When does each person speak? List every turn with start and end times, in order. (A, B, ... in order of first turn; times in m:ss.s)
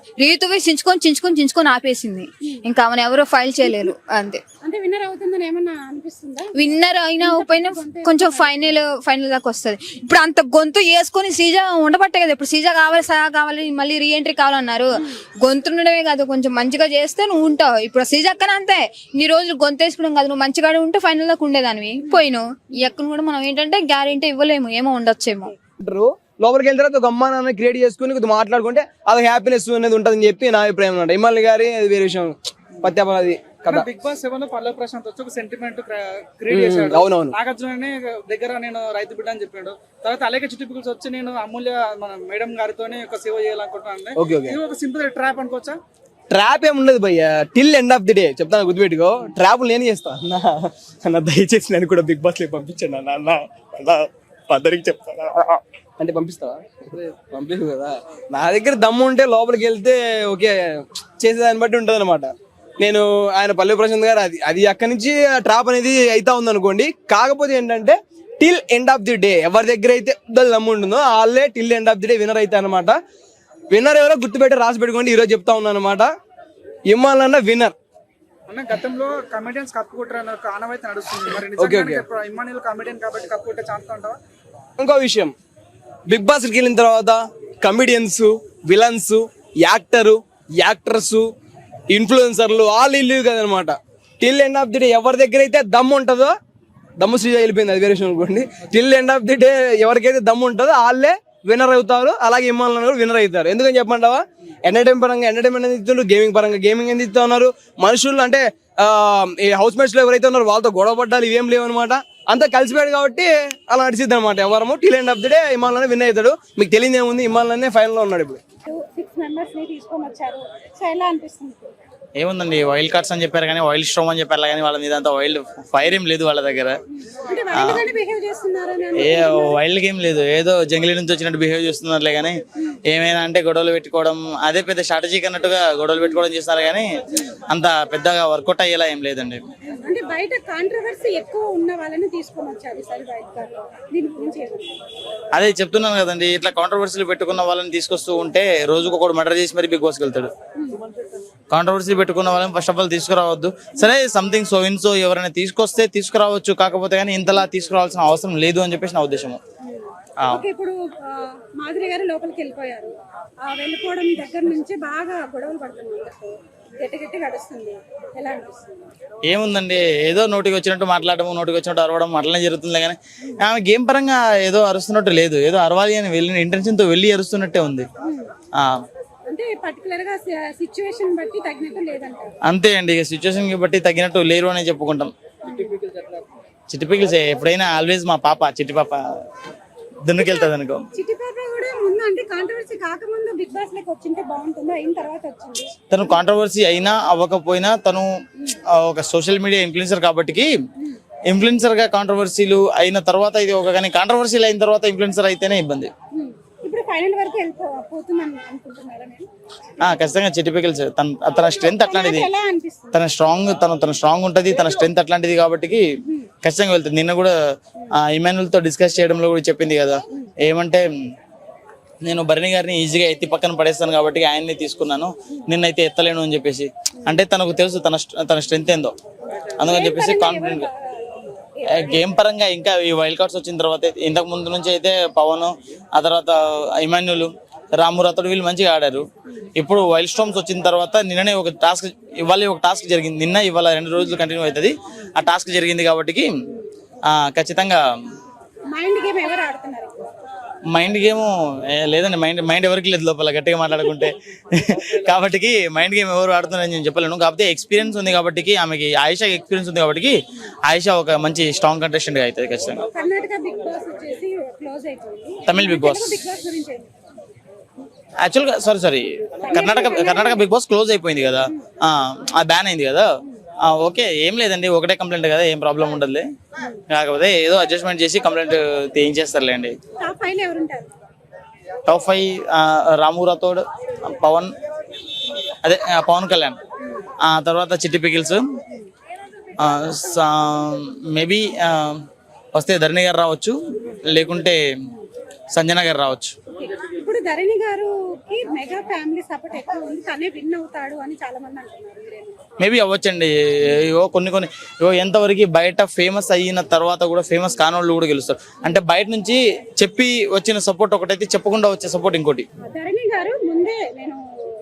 0:00.2-0:04.4 A
0:04.6-0:08.8 B
0:06.5-0:25.5 A
0:25.8-0:33.9 C
0:33.7-0:45.8 D
0:36.5-0:37.3 C
0:44.1-0:44.6 C
0:46.3-1:13.0 C
1:13.7-1:16.1 C
1:16.9-1:17.7 C
1:18.5-1:24.2 D
1:21.6-1:22.0 C
1:24.8-1:25.3 C
1:26.1-1:31.2 C
1:31.9-1:36.4 C
1:37.0-1:58.4 C
1:58.7-2:01.7 B
2:02.2-2:06.8 E
2:06.9-2:09.6 B
2:07.5-2:07.8 E
2:09.0-2:19.4 E
2:19.8-2:24.7 B
2:25.3-2:30.3 E
2:31.5-2:39.4 E
2:39.6-2:48.9 B
2:49.3-2:57.9 E
2:58.0-2:58.3 B
2:58.5-2:58.8 E
2:59.3-3:02.3 B
3:02.4-3:05.1 E
3:05.4-3:05.8 B
3:06.7-3:09.0 E
3:10.0-3:10.8 E
3:10.2-3:15.7 B
3:15.9-3:18.1 E
3:18.7-3:20.5 E
3:21.3-3:25.9 E
3:26.1-3:29.3 B
3:29.8-3:32.3 E
3:31.3-3:33.0 B
3:32.9-3:35.8 E
3:36.4-3:37.3 E
3:37.9-3:40.8 E
3:42.0-3:49.0 E
3:49.3-3:52.1 B
3:49.6-3:50.7 E
3:51.7-3:59.0 E
3:59.6-4:06.3 E
4:07.1-4:08.2 E
4:08.7-4:10.0 B
4:10.7-4:22.8 E
4:22.9-4:26.9 B
4:25.5-4:26.2 E
4:28.2-4:33.1 E
4:29.5-4:30.4 B
4:33.6-4:36.3 E
4:36.9-4:39.8 E
4:40.0-4:40.9 B
4:41.9-4:44.5 E
4:45.6-4:46.6 E
4:47.2-4:48.4 E
4:49.6-4:52.0 E
4:52.5-4:53.6 E
4:54.1-4:54.6 E
4:55.5-4:56.3 E
4:56.5-5:02.4 B
5:02.6-5:12.4 E
5:12.6-5:14.2 B